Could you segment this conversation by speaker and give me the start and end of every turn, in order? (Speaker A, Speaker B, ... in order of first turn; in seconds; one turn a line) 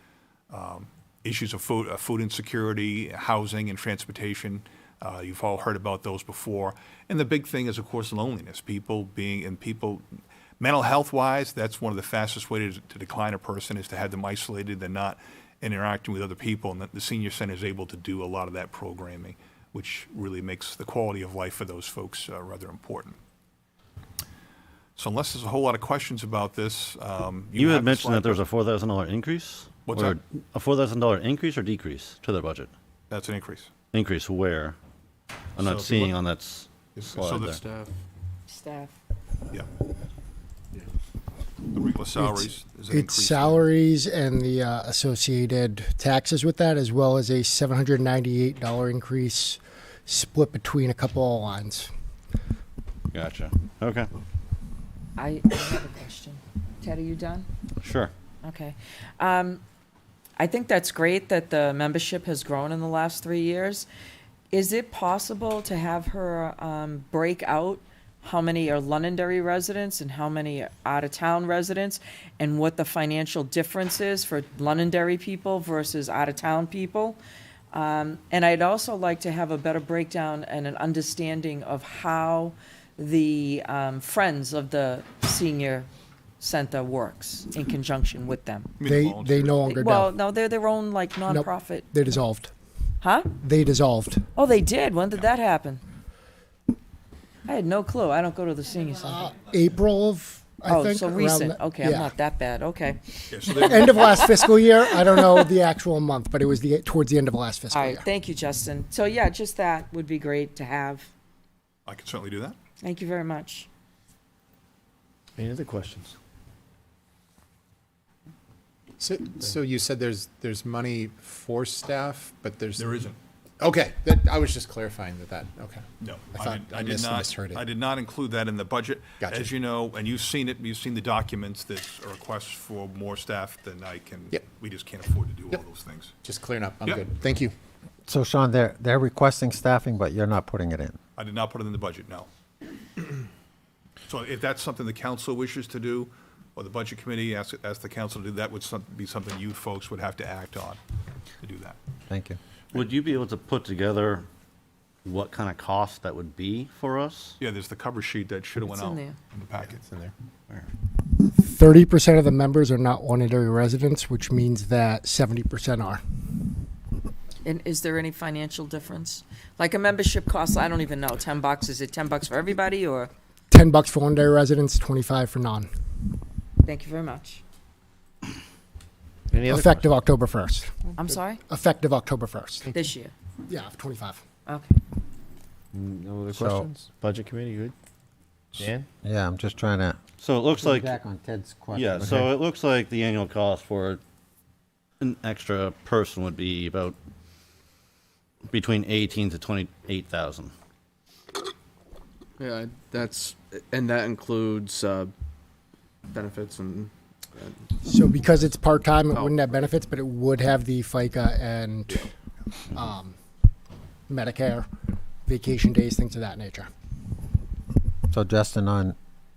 Speaker A: 0.5-10.0
Speaker A: 10.6-23.2
Speaker A: 24.9-28.4
Speaker B: 27.5-32.7
Speaker A: 29.9-30.2
Speaker A: 33.1-33.7
Speaker B: 33.9-34.8
Speaker B: 35.5-37.6
Speaker A: 35.6-36.1
Speaker A: 37.0-37.6
Speaker C: 37.2-37.9
Speaker D: 38.5-39.0
Speaker A: 41.7-43.7
Speaker E: 42.2-51.9
Speaker B: 53.1-54.1
Speaker D: 55.2-57.5
Speaker B: 57.8-58.1
Speaker D: 58.4-59.6
Speaker D: 60.4-63.9
Speaker D: 64.5-77.2
Speaker D: 77.7-85.9
Speaker D: 86.4-88.7
Speaker A: 88.8-89.6
Speaker E: 88.8-90.1
Speaker D: 89.6-91.9
Speaker E: 91.2-92.5
Speaker D: 93.0-93.3
Speaker E: 93.4-94.2
Speaker D: 94.3-95.8
Speaker D: 97.5-99.3
Speaker E: 99.0-102.1
Speaker D: 100.7-105.4
Speaker A: 103.3-104.3
Speaker E: 103.5-108.1
Speaker D: 107.7-111.1
Speaker A: 111.8-112.6
Speaker D: 112.8-113.7
Speaker F: 115.4-116.1
Speaker G: 119.0-123.0
Speaker A: 122.8-123.2
Speaker G: 123.6-127.6
Speaker A: 126.0-136.1
Speaker G: 129.2-129.5
Speaker G: 136.2-137.5
Speaker H: 138.1-141.0
Speaker A: 141.2-142.3
Speaker A: 144.1-150.8
Speaker A: 151.4-151.8
Speaker H: 152.1-152.4
Speaker B: 152.7-154.2
Speaker B: 155.0-157.4
Speaker A: 157.4-159.8
Speaker D: 158.6-159.2
Speaker G: 159.6-160.1
Speaker E: 161.3-166.0
Speaker D: 167.4-173.1
Speaker E: 173.5-175.7
Speaker D: 176.6-177.4
Speaker F: 179.3-179.7
Speaker E: 179.4-180.7
Speaker D: 180.8-181.4
Speaker E: 181.5-182.7
Speaker D: 182.7-183.1
Speaker E: 183.5-184.2
Speaker D: 184.4-184.8
Speaker F: 185.9-187.7
Speaker H: 186.3-186.7
Speaker F: 188.6-188.9
Speaker H: 188.6-190.0
Speaker B: 190.2-191.0
Speaker H: 190.6-192.1
Speaker B: 191.7-194.0
Speaker B: 195.0-196.9
Speaker B: 198.5-200.5
Speaker C: 202.4-205.1
Speaker C: 206.1-208.4
Speaker E: 207.8-212.1
Speaker C: 209.1-209.6
Speaker E: 212.7-213.1
Speaker E: 214.1-214.7
Speaker E: 215.2-216.7
Speaker H: 218.1-218.9